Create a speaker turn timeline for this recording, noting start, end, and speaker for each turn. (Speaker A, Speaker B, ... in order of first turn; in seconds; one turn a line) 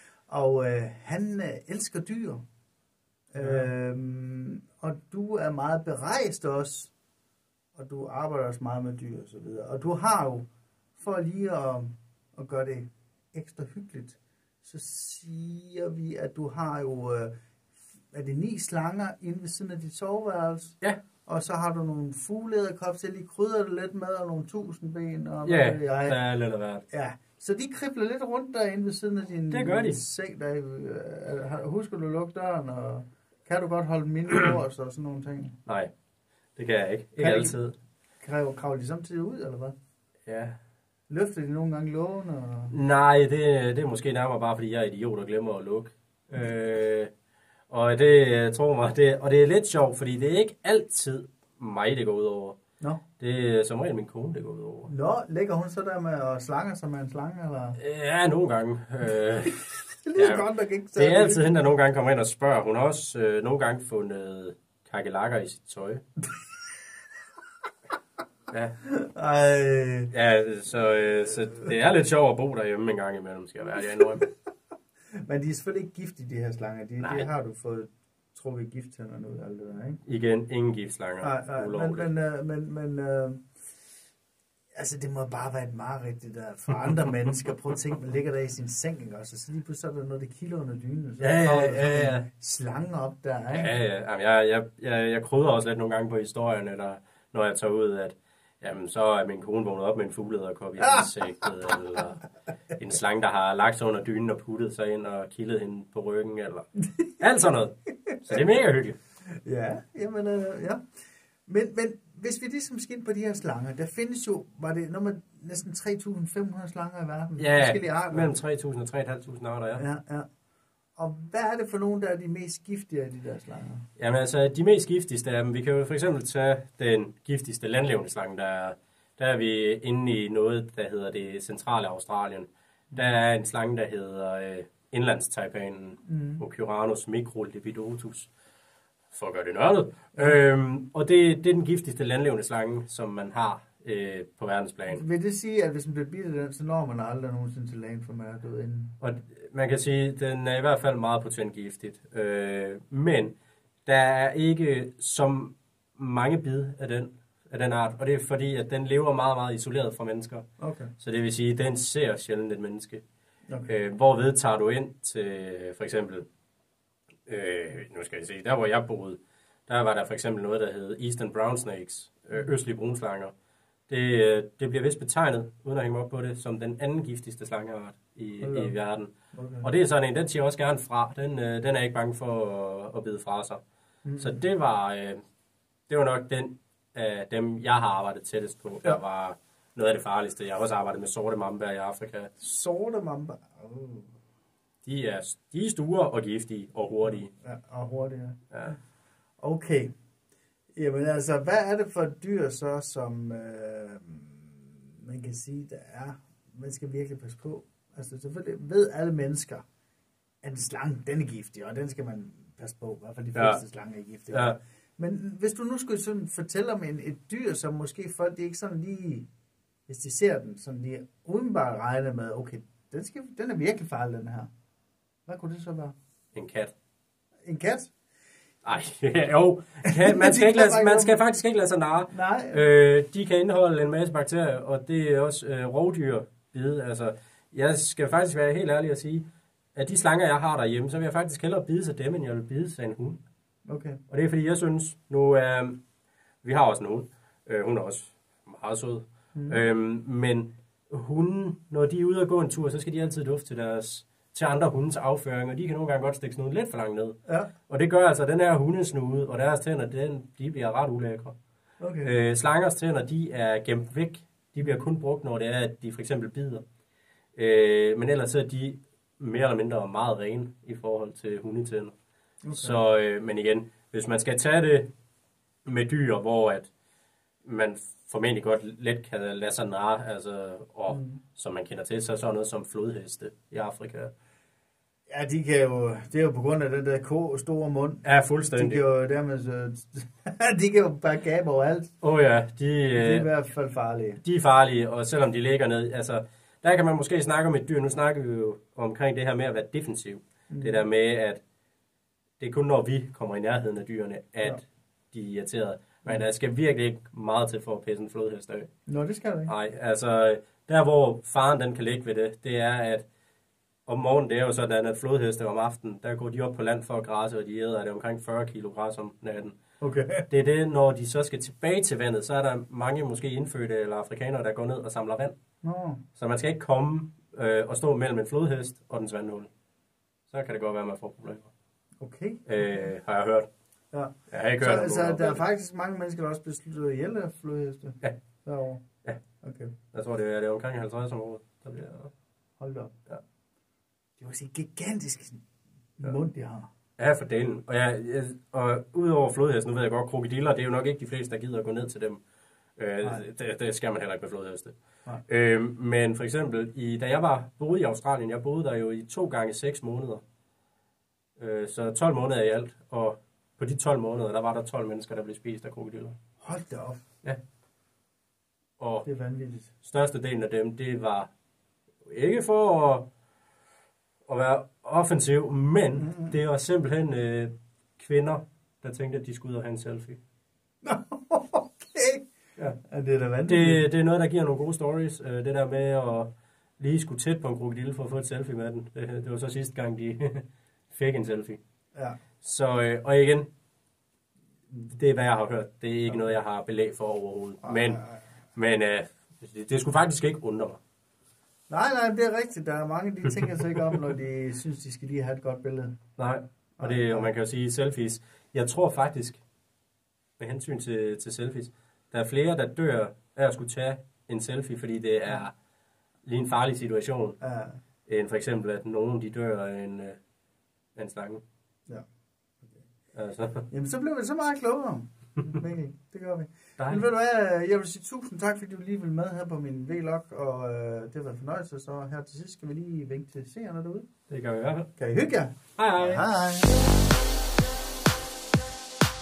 Speaker A: 0.3-2.4
Speaker A: 3.3-6.9
Speaker B: 3.4-3.7
Speaker A: 7.7-17.3
Speaker A: 18.1-26.2
Speaker B: 25.4-26.9
Speaker A: 26.9-35.6
Speaker B: 29.5-30.0
Speaker B: 35.6-35.9
Speaker B: 36.5-37.7
Speaker A: 37.2-37.6
Speaker A: 38.2-39.7
Speaker B: 40.3-40.5
Speaker A: 41.1-42.8
Speaker B: 42.7-47.1
Speaker B: 47.7-52.6
Speaker B: 53.2-54.9
Speaker A: 54.9-57.8
Speaker B: 57.8-66.0
Speaker A: 60.0-61.5
Speaker B: 68.5-68.8
Speaker A: 68.8-70.1
Speaker B: 70.1-74.2
Speaker A: 74.0-74.4
Speaker A: 75.1-80.0
Speaker B: 77.0-77.3
Speaker B: 80.0-82.1
Speaker A: 81.2-83.5
Speaker A: 84.7-93.7
Speaker B: 91.2-92.2
Speaker B: 93.5-102.2
Speaker A: 100.8-101.1
Speaker B: 102.8-106.7
Speaker B: 107.2-109.0
Speaker A: 108.1-108.4
Speaker A: 109.3-118.3
Speaker B: 117.4-119.8
Speaker A: 119.8-120.3
Speaker A: 121.0-123.9
Speaker B: 124.0-138.3
Speaker A: 136.1-136.4
Speaker B: 139.1-145.0
Speaker A: 144.9-148.9
Speaker B: 149.0-160.4
Speaker A: 160.6-160.9
Speaker B: 161.0-163.0
Speaker B: 163.7-166.2
Speaker B: 167.3-173.3
Speaker B: 173.9-183.6
Speaker A: 178.4-178.7
Speaker A: 179.3-179.7
Speaker A: 184.0-184.4
Speaker B: 184.2-185.2
Speaker B: 185.9-192.3
Speaker A: 192.4-194.1
Speaker B: 194.8-197.3
Speaker A: 197.0-198.7
Speaker B: 198.5-198.8
Speaker A: 199.4-199.9
Speaker A: 200.7-209.6
Speaker A: 210.4-219.3
Speaker B: 213.3-213.6
Speaker B: 214.3-214.6
Speaker A: 219.9-224.5
Speaker A: 225.3-225.9
Speaker B: 226.3-226.7
Speaker A: 227.4-227.9
Speaker B: 228.6-243.2
Speaker A: 229.9-231.2
Speaker A: 232.1-232.6
Speaker A: 243.7-244.0
Speaker B: 244.1-245.8
Speaker B: 246.4-261.3
Speaker A: 249.3-249.6
Speaker A: 261.8-262.1
Speaker B: 262.0-266.6
Speaker B: 267.4-271.9
Speaker A: 272.4-272.8
Speaker B: 272.5-274.9
Speaker B: 275.6-276.7
Speaker B: 277.4-284.1
Speaker A: 280.9-281.2
Speaker A: 285.1-291.9
Speaker B: 288.0-288.8
Speaker B: 292.0-293.3
Speaker A: 292.9-294.2
Speaker B: 294.2-301.4
Speaker A: 300.5-300.8
Speaker B: 302.4-308.7
Speaker A: 308.9-309.5
Speaker B: 309.5-313.0
Speaker B: 313.9-319.6
Speaker A: 319.8-320.2
Speaker B: 320.3-325.3
Speaker A: 325.6-326.0
Speaker B: 326.2-329.5
Speaker B: 330.3-331.5
Speaker A: 332.0-332.9
Speaker B: 332.4-333.5
Speaker A: 333.9-338.8
Speaker B: 334.3-335.4
Speaker A: 339.4-339.7
Speaker B: 339.9-342.1
Speaker A: 342.6-342.9
Speaker A: 344.2-345.4
Speaker A: 346.0-346.7
Speaker B: 347.0-352.2
Speaker B: 352.8-354.7
Speaker B: 355.3-360.2
Speaker B: 361.4-366.2
Speaker A: 366.4-367.0
Speaker B: 368.8-369.1
Speaker A: 369.0-369.7
Speaker B: 369.8-371.3
Speaker B: 372.0-373.1
Speaker B: 374.3-380.2
Speaker A: 376.0-376.3
Speaker A: 380.8-382.2
Speaker A: 382.9-383.8
Speaker B: 383.4-391.6
Speaker B: 392.4-393.5
Speaker B: 394.7-398.0
Speaker A: 397.6-398.2
Speaker B: 398.6-400.8
Speaker A: 401.7-406.0
Speaker B: 406.2-409.4
Speaker A: 406.8-407.3
Speaker B: 410.4-415.5
Speaker B: 416.2-417.4
Speaker A: 417.4-417.8
Speaker B: 418.1-420.2
Speaker B: 420.9-421.4
Speaker B: 423.1-423.7
Speaker A: 423.7-434.1
Speaker B: 426.8-427.0
Speaker B: 434.3-434.9
Speaker A: 435.0-436.9
Speaker B: 435.8-436.2